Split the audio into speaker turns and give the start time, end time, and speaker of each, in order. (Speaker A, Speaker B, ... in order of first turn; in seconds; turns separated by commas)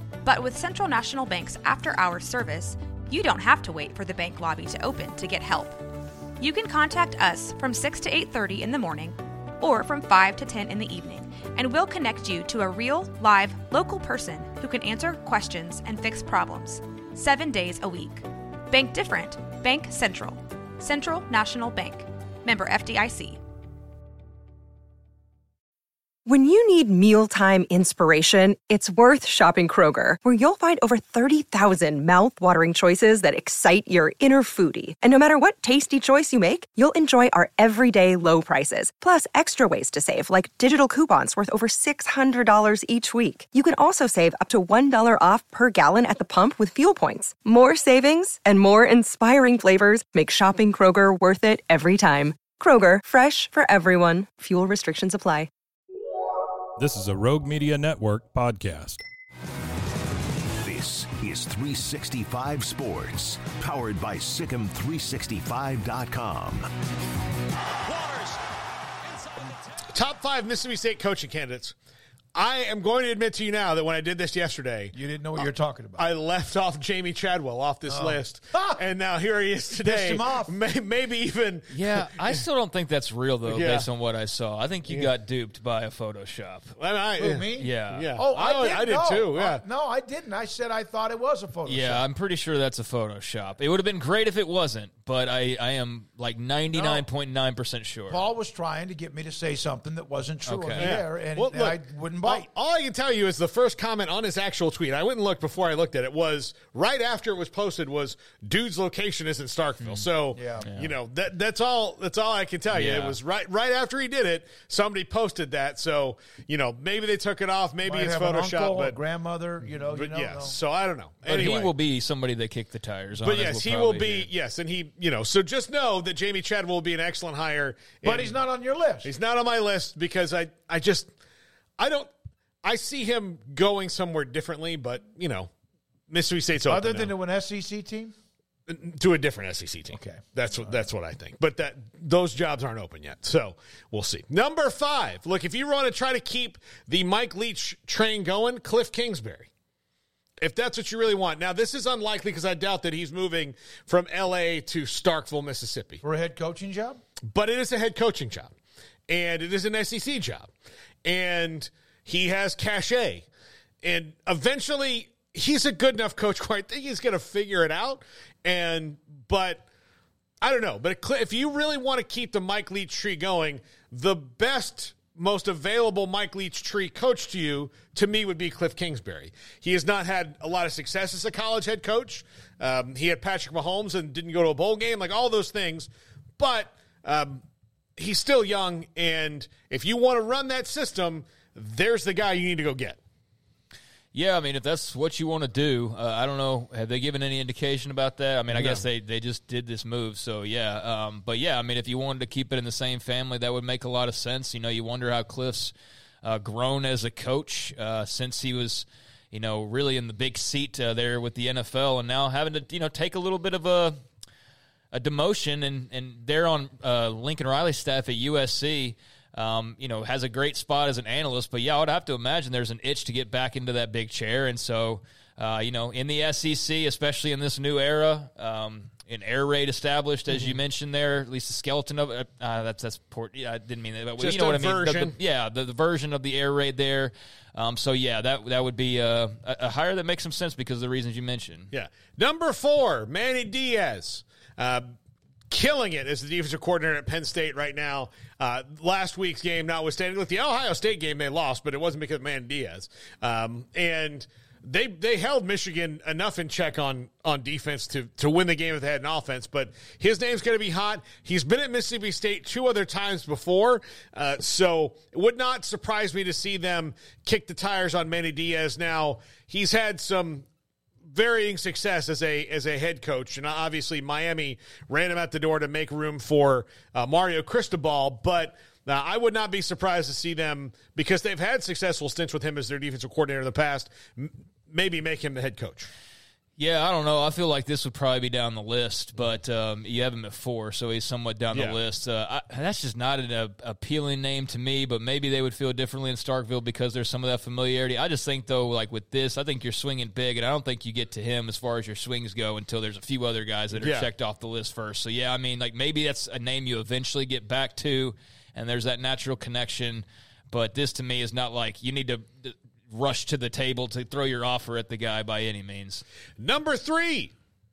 Speaker A: 0.2-5.8, Speaker A: 6.4-23.4, Speaker B: 26.2-55.5, Speaker C: 56.8-59.0, Speaker D: 60.6-66.7, Speaker C: 67.9-68.3, Speaker E: 69.9-71.7, Speaker E: 72.3-82.4, Speaker F: 74.9-76.0, Speaker F: 77.9-78.8, Speaker F: 79.8-80.5, Speaker G: 81.7-86.8, Speaker E: 83.5-83.9, Speaker E: 84.9-85.1, Speaker E: 86.8-89.6, Speaker F: 87.2-92.0, Speaker G: 87.5-88.2, Speaker G: 91.6-98.2, Speaker F: 96.7-97.0, Speaker F: 98.1-102.5, Speaker G: 100.4-101.0, Speaker E: 100.8-119.0, Speaker G: 109.8-110.1, Speaker F: 110.3-110.7, Speaker G: 110.6-110.9, Speaker G: 112.7-113.2, Speaker F: 117.8-120.6, Speaker E: 119.9-121.7, Speaker G: 121.2-124.3, Speaker E: 123.2-128.4, Speaker F: 128.0-129.1, Speaker E: 129.0-131.1, Speaker E: 131.8-132.1, Speaker E: 132.6-135.5, Speaker E: 136.1-137.1, Speaker F: 136.6-138.1, Speaker E: 138.7-149.5, Speaker F: 139.9-140.2, Speaker E: 150.4-156.0, Speaker F: 156.0-157.0, Speaker E: 157.3-158.5, Speaker E: 159.1-160.5, Speaker E: 161.0-163.3, Speaker E: 163.8-169.7, Speaker E: 170.4-187.4, Speaker E: 188.0-193.0, Speaker G: 194.1-214.0, Speaker G: 214.9-241.7, Speaker E: 234.2-235.1, Speaker E: 241.7-244.9, Speaker E: 245.5-270.5, Speaker E: 271.1-285.9, Speaker G: 286.6-316.0, Speaker E: 291.5-291.8, Speaker E: 303.7-304.1, Speaker E: 316.4-317.3